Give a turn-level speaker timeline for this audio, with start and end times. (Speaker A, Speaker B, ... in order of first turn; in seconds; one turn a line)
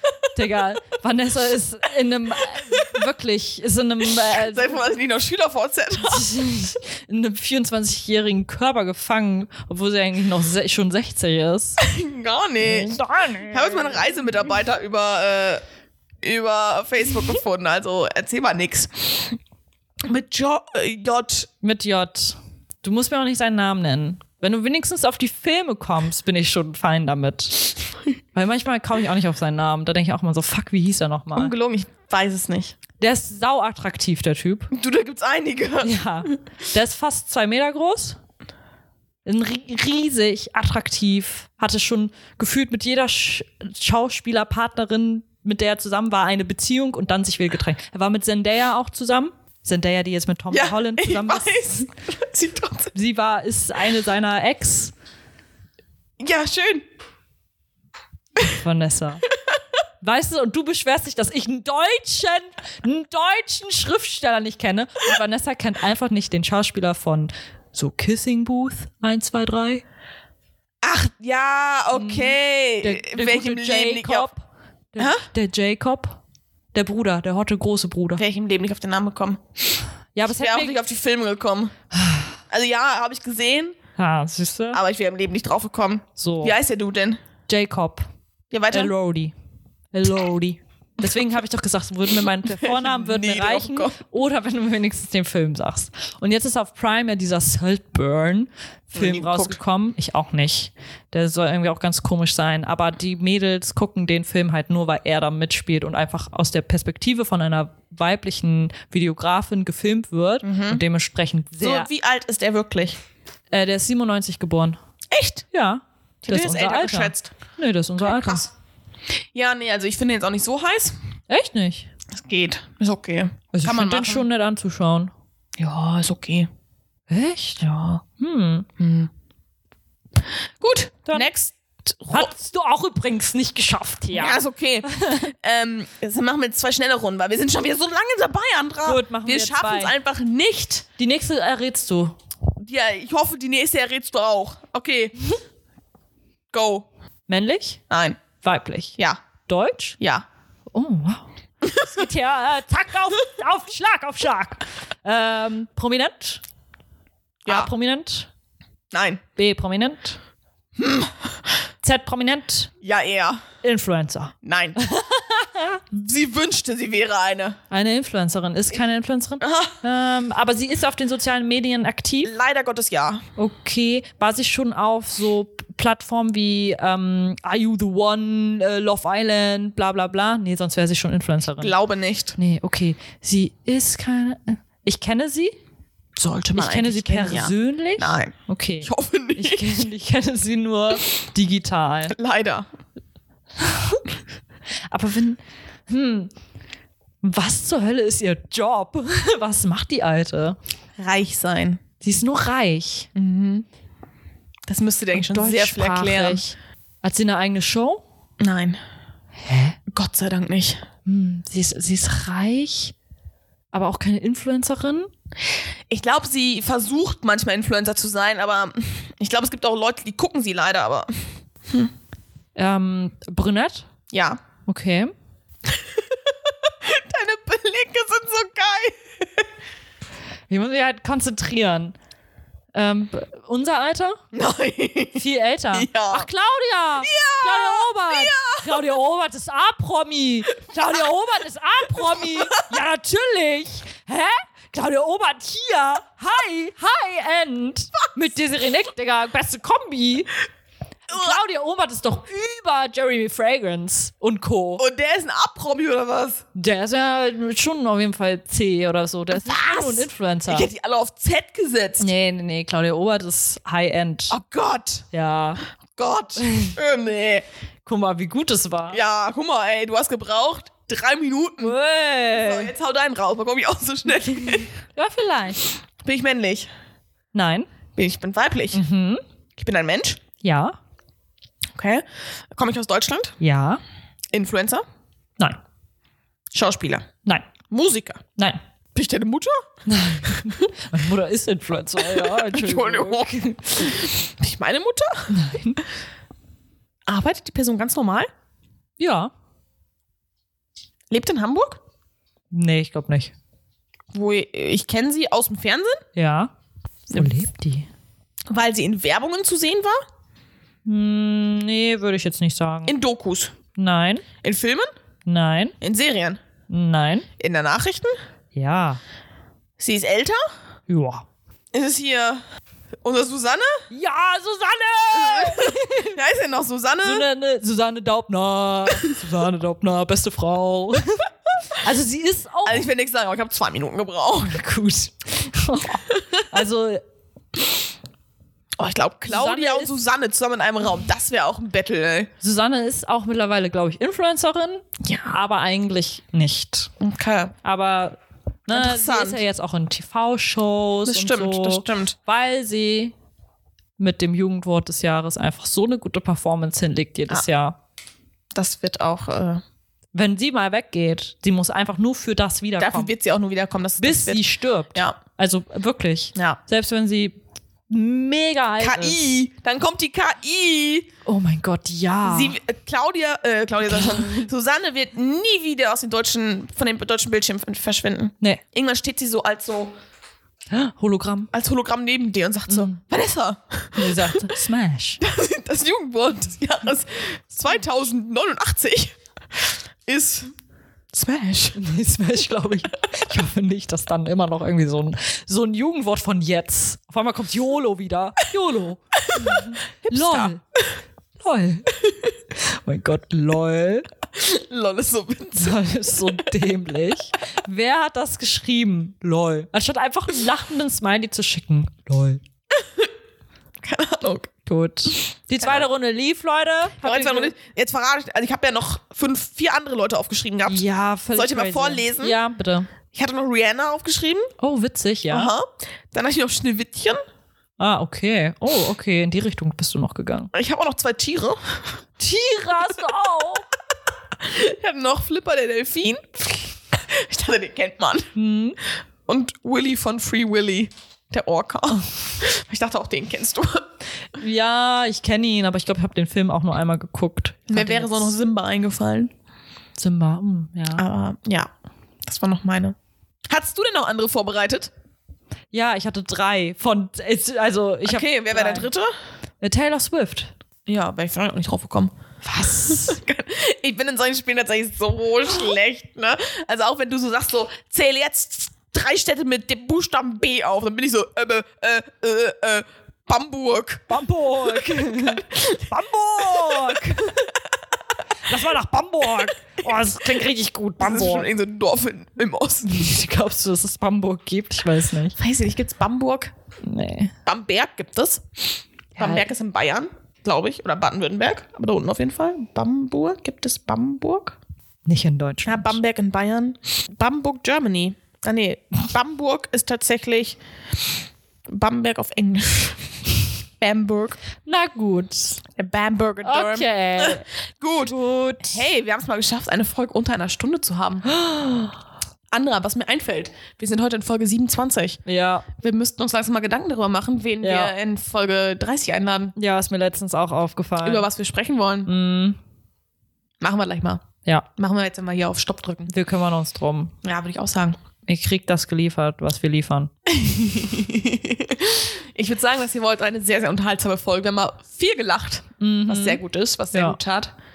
Speaker A: 0.3-4.9
Speaker B: 4.2-6.3
Speaker A: 6.0-11.8
Speaker B: 11.8-15.6
Speaker A: 12.6-14.2
Speaker B: 16.2-19.4
Speaker B: 20.0-21.5
Speaker A: 21.6-27.7
Speaker A: 28.3-31.5
Speaker B: 31.3-32.7
Speaker A: 33.0-34.7
Speaker B: 34.7-36.4
Speaker A: 35.8-38.2
Speaker A: 39.2-51.8
Speaker B: 50.5-52.9
Speaker A: 52.9-54.9
Speaker B: 56.2-56.8
Speaker A: 58.5-59.2
Speaker A: 60.0-69.8
Speaker B: 70.8-74.3
Speaker A: 71.9-76.2
Speaker B: 75.0-75.2
Speaker A: 76.7-78.2
Speaker B: 78.2-81.7
Speaker A: 80.1-80.8
Speaker A: 81.9-82.3
Speaker B: 82.5-83.8
Speaker A: 84.0-84.8
Speaker B: 84.7-87.2
Speaker A: 86.2-86.5
Speaker A: 87.5-88.0
Speaker B: 88.5-88.9
Speaker A: 88.7-89.3
Speaker A: 89.9-111.9
Speaker B: 92.5-94.0
Speaker B: 99.0-99.6
Speaker B: 110.4-110.8
Speaker B: 111.6-113.0
Speaker A: 113.5-114.8
Speaker B: 115.1-115.4
Speaker A: 115.5-118.5
Speaker B: 116.2-117.3
Speaker B: 118.0-118.5
Speaker B: 119.3-121.0
Speaker A: 121.3-121.9
Speaker B: 122.1-124.2
Speaker A: 123.5-125.1
Speaker B: 125.6-126.5
Speaker A: 127.1-128.7
Speaker B: 128.8-129.1
Speaker B: 130.6-132.3
Speaker A: 132.1-135.3
Speaker B: 134.1-140.9
Speaker A: 138.8-139.9
Speaker A: 141.0-142.2
Speaker B: 142.6-145.2
Speaker B: 146.5-146.9
Speaker A: 147.3-147.8
Speaker B: 147.9-148.2
Speaker A: 148.4-150.0
Speaker B: 150.0-150.2
Speaker A: 150.7-156.4
Speaker B: 151.6-152.0
Speaker A: 157.5-158.3
Speaker B: 158.9-159.2
Speaker A: 159.3-160.2
Speaker B: 160.8-161.3
Speaker A: 161.8-162.7
Speaker B: 162.8-163.4
Speaker A: 163.6-165.8
Speaker B: 164.4-164.8
Speaker B: 165.9-167.6
Speaker A: 167.7-172.3
Speaker B: 169.4-169.7
Speaker B: 172.2-173.2
Speaker A: 173.4-181.7
Speaker B: 181.6-182.4
Speaker A: 182.4-185.5
Speaker B: 186.2-189.8
Speaker A: 186.5-192.1
Speaker B: 192.1-192.7
Speaker A: 193.6-194.0
Speaker A: 194.9-196.3
Speaker A: 197.2-200.6
Speaker B: 201.0-201.8
Speaker A: 202.0-203.1
Speaker B: 203.1-203.7
Speaker B: 204.7-206.4
Speaker A: 205.1-208.0
Speaker B: 208.4-208.8
Speaker A: 209.4-209.8
Speaker B: 209.9-210.8
Speaker A: 211.1-212.9
Speaker A: 213.7-215.1
Speaker B: 215.9-221.9
Speaker A: 222.5-223.9
Speaker B: 224.1-224.4
Speaker A: 224.7-225.1
Speaker B: 225.7-229.4
Speaker A: 230.5-231.9
Speaker A: 232.7-234.2
Speaker B: 234.3-236.3
Speaker A: 235.2-250.3
Speaker B: 237.0-238.8
Speaker B: 241.9-242.7
Speaker A: 251.1-254.8
Speaker B: 251.1-251.4
Speaker B: 254.8-256.4
Speaker A: 256.5-260.7
Speaker B: 259.3-262.1
Speaker A: 262.0-264.3
Speaker B: 264.3-265.1
Speaker A: 265.1-265.6
Speaker B: 265.9-267.4
Speaker A: 266.4-266.8
Speaker A: 267.8-269.0
Speaker B: 268.9-271.7
Speaker A: 271.6-272.7
Speaker B: 272.3-274.7
Speaker A: 274.5-275.6
Speaker B: 276.0-276.7
Speaker A: 277.3-277.7
Speaker B: 277.9-278.8
Speaker A: 278.7-279.2
Speaker B: 279.6-280.2
Speaker A: 280.4-280.8
Speaker B: 281.7-282.0
Speaker B: 282.5-283.4
Speaker A: 283.4-283.8
Speaker B: 284.3-284.8
Speaker B: 286.5-287.1
Speaker A: 287.2-287.5
Speaker B: 287.7-288.2
Speaker B: 288.9-289.6
Speaker A: 289.9-293.9
Speaker B: 290.2-290.7
Speaker B: 292.0-295.4
Speaker A: 295.3-295.8
Speaker B: 297.1-298.3
Speaker A: 299.0-299.3
Speaker B: 301.1-301.8
Speaker A: 302.5-303.3
Speaker B: 304.1-306.0
Speaker A: 306.1-306.5
Speaker A: 307.1-307.9
Speaker B: 308.5-310.0
Speaker A: 310.9-312.9
Speaker B: 312.9-313.6
Speaker A: 313.7-314.2
Speaker B: 314.4-314.9
Speaker A: 315.2-315.7
Speaker B: 315.8-316.4
Speaker A: 316.7-317.3
Speaker B: 317.4-318.1
Speaker A: 318.5-319.0
Speaker B: 319.8-320.4
Speaker A: 320.9-321.2
Speaker B: 321.7-322.4
Speaker B: 323.0-323.9
Speaker A: 323.9-326.2
Speaker B: 325.1-327.3
Speaker A: 327.0-331.3
Speaker A: 331.8-332.9
Speaker B: 332.6-334.6
Speaker A: 334.4-337.0
Speaker B: 336.1-336.5
Speaker B: 338.8-342.3
Speaker A: 339.3-339.9
Speaker A: 342.4-346.9
Speaker B: 345.0-345.4
Speaker B: 347.0-347.5
Speaker A: 347.6-353.1
Speaker B: 348.7-349.4
Speaker B: 351.1-352.1
Speaker A: 354.0-357.8
Speaker B: 358.5-359.6
Speaker A: 360.1-363.1
Speaker B: 362.8-365.2
Speaker A: 364.0-367.4
Speaker B: 366.3-366.6
Speaker A: 367.9-369.2
Speaker B: 368.8-371.1
Speaker A: 371.2-372.6
Speaker B: 372.2-379.9
Speaker A: 373.9-374.5
Speaker A: 380.7-381.5
Speaker B: 381.5-384.5
Speaker A: 382.7-383.0
Speaker A: 384.0-385.2
Speaker B: 385.2-390.5
Speaker B: 391.1-391.8
Speaker A: 391.8-400.6
Speaker B: 399.2-400.9
Speaker A: 401.4-401.9
Speaker A: 402.5-404.1
Speaker B: 404.3-406.4
Speaker A: 405.5-412.4
Speaker B: 412.8-413.1
Speaker B: 413.8-414.5
Speaker A: 414.6-417.5
Speaker B: 415.1-415.9
Speaker B: 417.0-420.8
Speaker A: 420.7-422.9
Speaker B: 421.3-422.4
Speaker B: 423.1-424.5
Speaker A: 424.6-425.5
Speaker B: 425.3-427.2
Speaker A: 427.8-430.5
Speaker B: 430.5-431.8
Speaker A: 432.2-433.6
Speaker B: 434.4-438.3
Speaker A: 438.3-438.8
Speaker B: 439.3-443.8
Speaker A: 444.3-448.3
Speaker B: 447.7-449.3
Speaker A: 450.0-451.0
Speaker B: 450.9-451.7
Speaker B: 452.2-452.9
Speaker B: 453.5-454.9
Speaker A: 455.7-458.9
Speaker B: 458.0-459.1
Speaker A: 459.6-460.5
Speaker B: 460.9-475.9
Speaker A: 462.4-463.2
Speaker A: 474.1-477.5
Speaker B: 476.4-477.3
Speaker A: 478.5-481.5
Speaker B: 479.8-480.1
Speaker B: 481.0-483.1
Speaker A: 482.8-485.3
Speaker B: 485.4-486.5
Speaker A: 486.8-487.3
Speaker B: 487.4-488.6
Speaker B: 489.1-494.6
Speaker A: 489.2-489.5
Speaker A: 495.0-496.0
Speaker B: 495.6-500.6
Speaker B: 501.7-503.2
Speaker B: 503.8-504.4
Speaker A: 504.6-505.6
Speaker B: 505.8-511.3
Speaker A: 506.4-507.4
Speaker A: 508.0-508.9
Speaker A: 511.3-512.0
Speaker B: 512.5-515.2
Speaker A: 515.2-515.6
Speaker B: 515.8-519.5
Speaker A: 517.6-517.9
Speaker A: 519.5-521.3
Speaker B: 521.0-522.1
Speaker A: 522.0-522.6
Speaker B: 523.6-526.1
Speaker A: 526.1-527.1
Speaker B: 527.2-528.0
Speaker A: 528.2-530.1
Speaker B: 530.3-537.5
Speaker A: 535.8-537.2